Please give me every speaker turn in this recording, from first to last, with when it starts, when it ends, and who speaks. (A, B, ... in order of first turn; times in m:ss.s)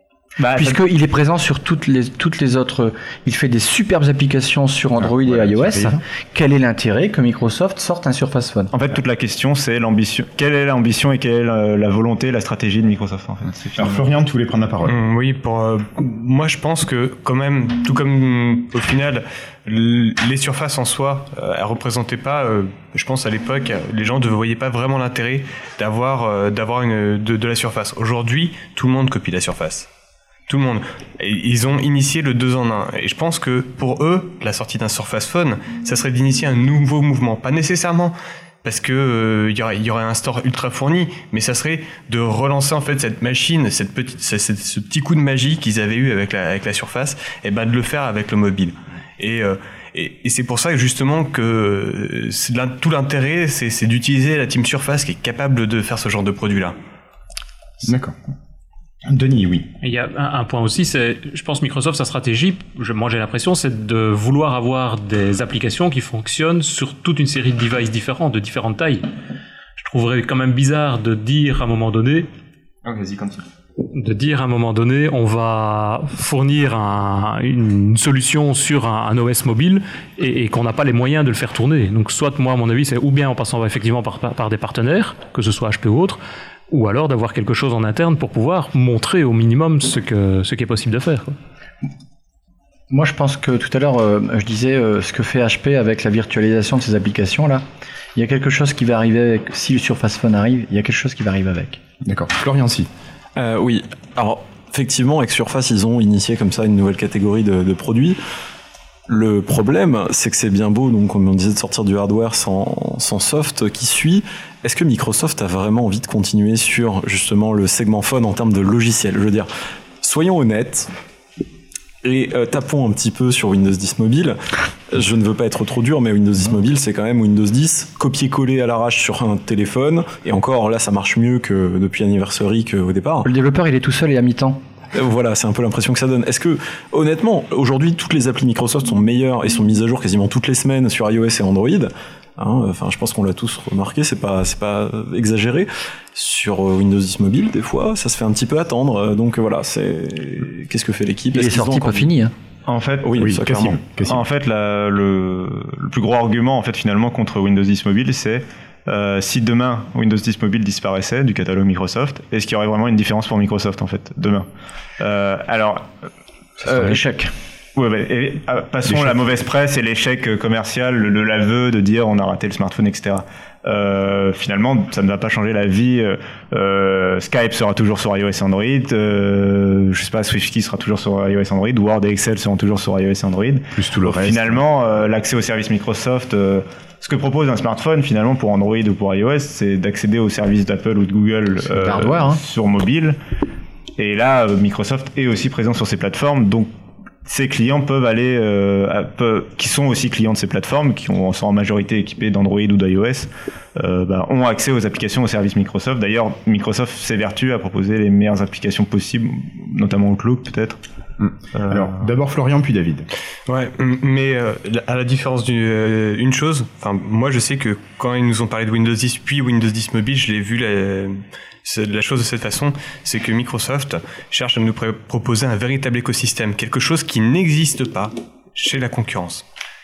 0:00.4-0:00.8 A
0:00.6-0:08.7 B
0:05.0-0:06.0 C
0:08.7-0:14.0 A
0:13.8-0:15.0 C
0:14.8-0:29.9 D
0:30.5-0:56.8 D
0:57.8-0:58.1 C
0:59.0-0:59.7 C
0:59.8-1:09.0 E
1:09.8-1:12.3 E
1:12.8-1:13.4 C
1:13.9-1:31.4 E
1:32.9-1:37.6 B
1:38.1-1:41.8 B
1:42.0-1:42.9 C
1:43.4-1:48.2 F
1:49.1-1:59.5 F
2:00.0-2:00.9 F
2:02.0-2:04.4 F
2:04.9-2:13.3 F
2:13.2-2:14.6 B
2:14.9-2:32.1 F
2:31.3-2:32.3 B
2:32.6-2:44.5 A
2:33.0-2:33.8 F
2:33.2-2:34.2 C
2:45.0-2:45.9 A
2:46.6-2:47.3 B
2:47.7-3:13.2 A
2:48.9-2:49.1 C
3:03.7-3:04.6 C
3:11.7-3:12.4 B
3:14.0-3:16.7 A
3:17.2-3:30.8 A
3:31.2-3:33.1 C
3:33.5-3:49.4 D